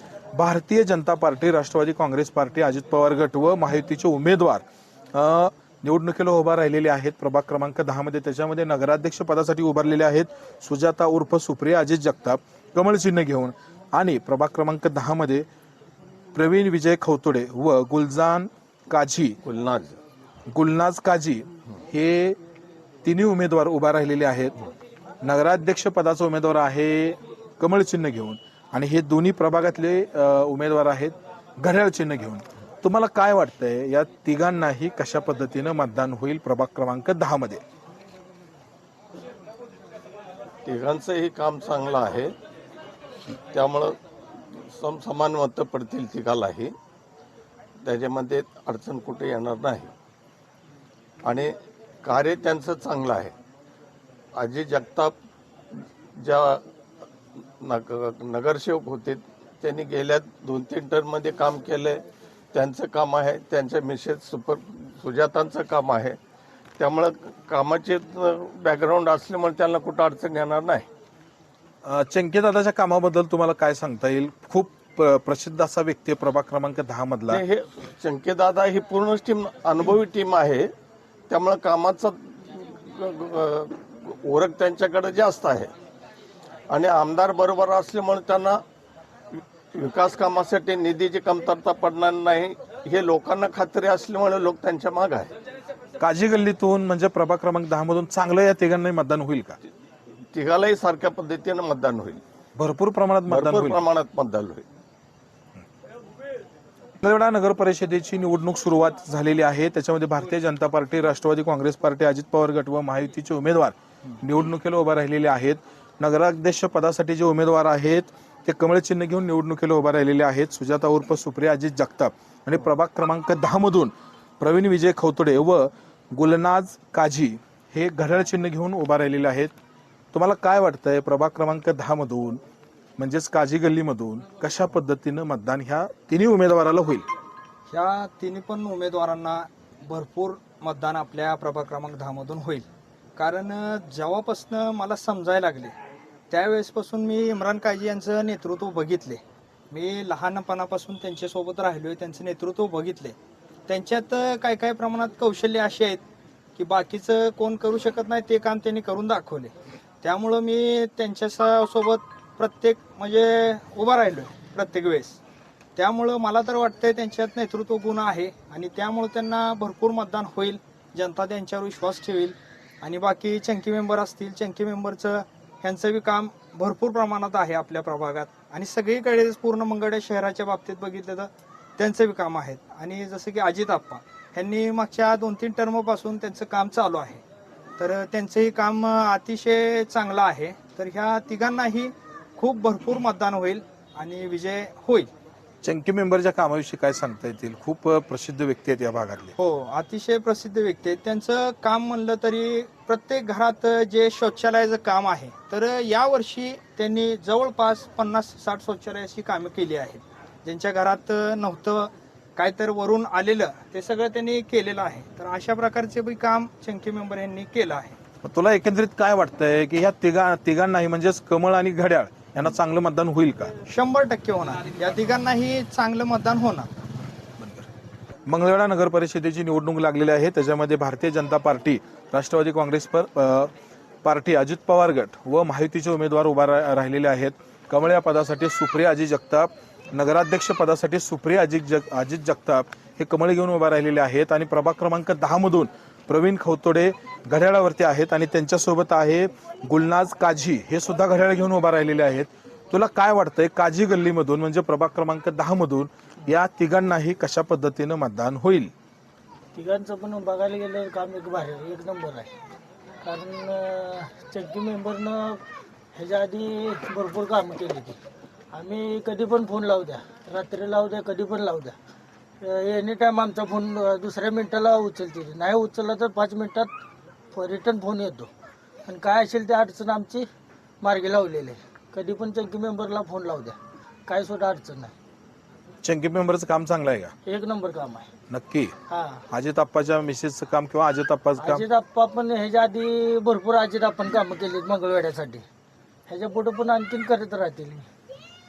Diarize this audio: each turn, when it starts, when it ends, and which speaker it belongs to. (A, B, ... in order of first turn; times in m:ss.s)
0:00.3-0:15.4 A
0:16.3-0:19.4 A
0:19.4-0:20.0 B
0:20.5-0:22.4 A
0:23.0-0:24.7 A
0:25.2-0:37.6 A
0:40.6-0:42.3 B
0:43.5-0:46.7 B
0:47.8-0:49.9 B
0:51.2-0:53.3 B
0:54.4-0:55.2 B
0:55.7-0:56.6 B
0:57.6-1:02.0 B
1:02.5-1:06.2 B
1:06.8-1:10.8 B
1:11.8-1:17.4 A
1:17.3-1:20.7 B
1:21.3-1:25.7 B
1:26.7-1:28.6 B
1:29.4-1:35.3 B
1:36.0-1:39.6 A
1:40.3-1:42.2 B
1:42.6-1:43.8 A
1:43.3-1:44.6 B
1:47.0-2:09.5 A
2:10.1-2:12.4 A
2:13.0-2:17.1 A
2:17.7-2:22.6 C
2:23.2-2:25.7 C
2:26.3-2:29.2 C
2:29.7-2:33.1 C
2:33.7-2:36.0 C
2:36.6-2:45.2 C
2:45.8-3:07.2 C
3:07.8-3:15.1 C
3:15.6-3:19.3 A
3:19.4-3:38.0 C
3:38.2-3:43.5 A
3:43.7-3:46.7 C
3:47.4-3:47.7 A
3:48.3-3:53.5 A
3:54.0-4:18.7 A
4:19.5-4:22.3 D
4:23.0-4:25.4 D
4:25.9-4:28.0 D
4:28.5-4:31.7 D
4:32.4-4:36.7 D
4:37.3-4:38.3 D
4:38.8-4:40.2 D
4:40.8-4:44.9 D
4:45.8-4:47.1 A
4:47.2-4:48.1 D
4:48.3-4:48.7 A
4:48.9-4:49.2 D
4:49.3-4:51.6 A
4:51.4-4:55.4 D
4:56.1-4:57.9 D